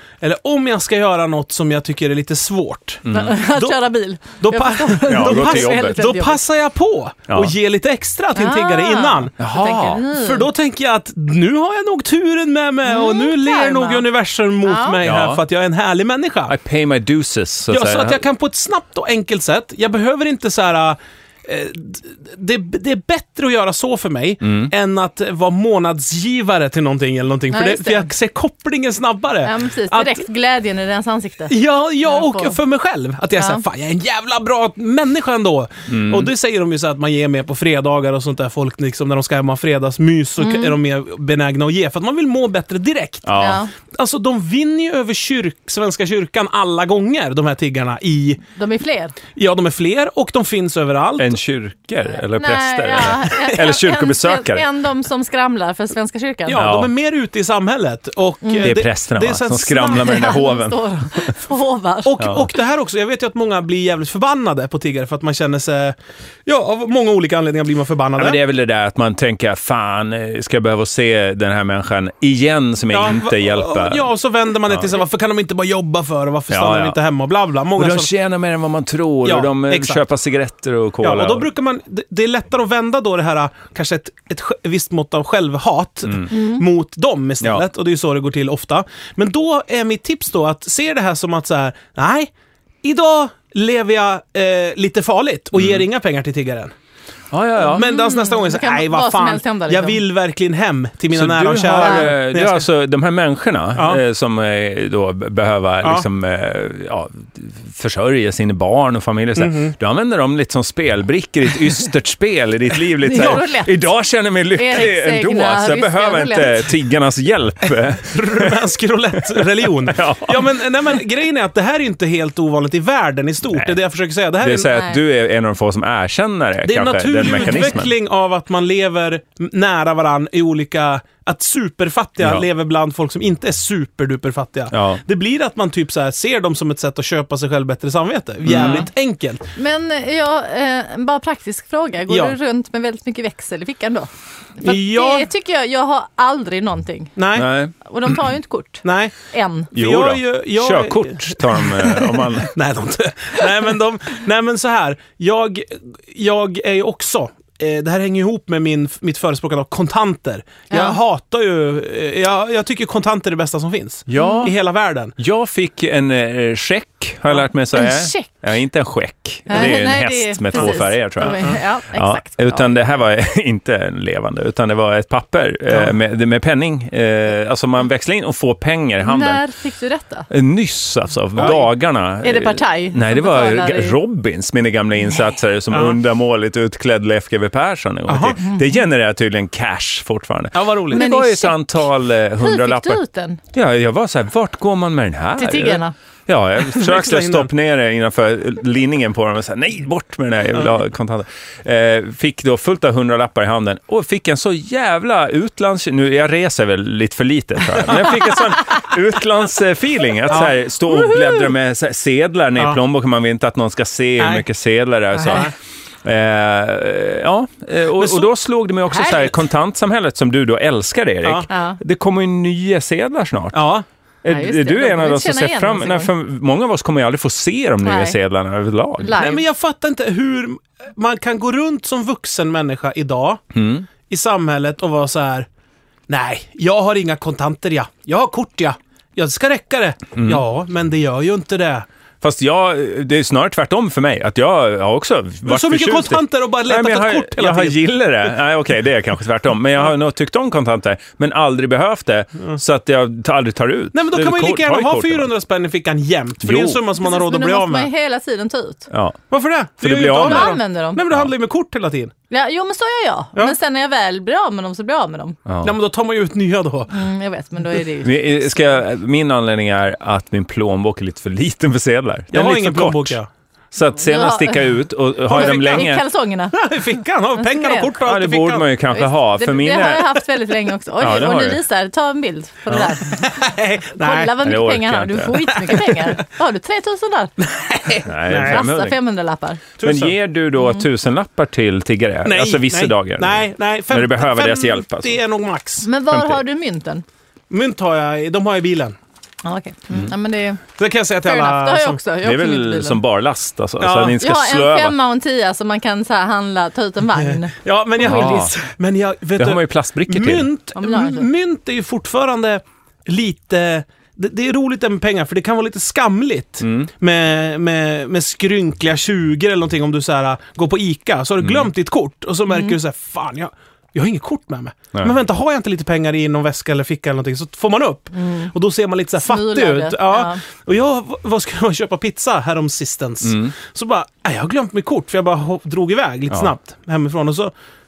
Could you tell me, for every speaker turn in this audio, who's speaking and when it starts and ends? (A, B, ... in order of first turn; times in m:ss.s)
0:00.2-0:03.8 A
0:03.0-0:03.4 B
0:03.1-0:06.4 C
0:04.4-0:09.3 A
0:05.1-0:06.1 B
0:07.3-0:07.5 B
0:08.4-0:10.5 C
0:09.4-0:10.1 B
0:10.1-0:16.5 A
0:12.9-0:14.1 C
0:14.6-0:15.0 C
0:15.0-0:15.4 B
0:16.5-0:18.2 B
0:17.7-0:30.2 A
0:24.4-0:24.7 B
0:27.5-0:28.1 C
0:29.4-0:32.6 C
0:31.5-0:48.4 A
0:33.4-0:33.6 C
0:35.9-0:36.3 B
0:40.4-0:40.8 C
0:43.2-0:43.6 B
0:43.4-0:43.7 C
0:48.6-0:49.2 C
0:49.4-0:51.4 A
0:51.2-0:54.6 B
0:52.4-0:56.6 C
0:56.4-1:00.4 A
0:56.6-0:56.9 B
0:58.4-0:58.7 C
0:58.6-1:01.3 B
0:59.9-1:02.3 C
1:02.0-1:08.4 A
1:08.2-1:14.1 B
1:12.9-1:18.1 A
1:16.5-1:17.0 B
1:17.7-1:21.5 B
1:19.2-1:20.0 A
1:21.0-1:32.3 A
1:26.3-1:26.6 C
1:32.8-1:36.7 A
1:35.6-1:35.8 B
1:37.3-1:37.9 B
1:37.6-1:42.6 A
1:37.7-1:40.0 C
1:41.1-1:58.6 B
1:41.8-1:42.1 C
1:49.4-1:49.7 A
1:53.0-1:53.9 C
1:54.6-1:56.7 C
1:58.1-2:04.8 A
1:59.3-2:00.6 B
2:04.4-2:07.9 B
2:04.7-2:05.0 C
2:06.6-2:19.5 A
2:14.7-2:15.0 B
2:18.4-2:18.9 B
2:19.6-2:27.2 C
2:22.1-2:22.4 A
2:24.6-2:25.3 A
2:27.2-2:27.5 A
2:27.4-2:27.7 B
2:27.7-2:29.7 C
2:28.8-2:29.1 A
2:29.7-2:45.1 A
2:29.7-2:32.6 B
2:40.7-2:41.0 C
2:44.1-2:44.5 B
2:44.2-2:44.5 C
2:45.2-2:59.4 B
2:47.7-2:48.3 C
2:49.5-2:52.7 C
2:59.0-3:00.3 C
3:00.3-3:13.0 B
3:01.4-3:01.6 A
3:02.2-3:04.0 C
3:05.7-3:06.0 A
3:08.1-3:08.4 A
3:10.5-3:11.0 A
3:10.9-3:11.9 C
3:12.4-3:13.4 C
3:13.5-3:35.5 B
3:15.4-3:15.9 C
3:16.7-3:17.5 A
3:31.1-3:31.4 C
3:34.2-3:34.4 A
3:35.2-3:35.5 A
3:36.0-3:43.6 B
3:38.0-3:38.3 A
3:41.5-3:41.8 C
3:43.5-3:43.8 A
3:44.2-3:49.2 B
3:44.3-3:46.1 C
3:47.8-3:48.2 C
3:49.0-3:49.4 C
3:49.2-3:53.4 A
3:53.5-3:53.9 B
3:54.1-3:55.5 A
3:56.1-4:01.9 A
4:00.2-4:00.4 B
4:02.2-4:15.3 B
4:05.4-4:07.9 A
4:13.9-4:17.9 A
4:16.4-4:16.8 B
4:16.9-4:18.9 C
4:18.9-4:19.2 B
4:19.3-4:22.1 A
4:19.8-4:20.6 B
4:20.2-4:21.0 C
4:22.3-4:25.4 C
4:25.4-4:25.7 B
4:25.6-4:26.9 A
4:26.9-4:28.7 C
4:28.0-4:33.2 B
4:32.3-4:33.3 A
4:33.7-4:36.0 B
4:34.0-4:34.7 C
4:35.3-4:36.6 C
4:35.3-4:36.0 A
4:36.5-4:38.7 A
4:37.4-4:37.9 C
4:38.0-4:40.2 B
4:38.9-4:43.4 C
4:41.0-4:41.6 B
4:42.7-4:44.4 A
4:44.0-4:47.3 C
4:44.4-4:45.5 B
4:45.5-4:46.2 A
4:47.4-4:48.6 A
4:48.0-4:49.0 B
4:48.4-4:49.6 C
4:49.8-4:50.1 A
4:49.8-4:55.2 B
4:50.6-4:50.8 C
4:52.2-4:55.9 A
4:55.8-4:57.0 C
4:56.1-4:56.4 B
4:57.5-4:59.0 A
4:59.4-5:00.6 C
5:00.8-5:02.0 A
5:01.2-5:03.0 C
5:02.2-5:04.9 B
5:03.8-5:04.2 A
5:04.1-5:08.6 C
5:07.2-5:37.5 A
5:08.0-5:08.5 B
5:09.4-5:10.5 B
5:10.8-5:11.3 C
5:16.6-5:16.9 B
5:21.4-5:21.7 B
5:22.5-5:22.8 C
5:28.2-5:28.5 C
5:29.2-5:30.4 C
5:33.2-5:33.5 B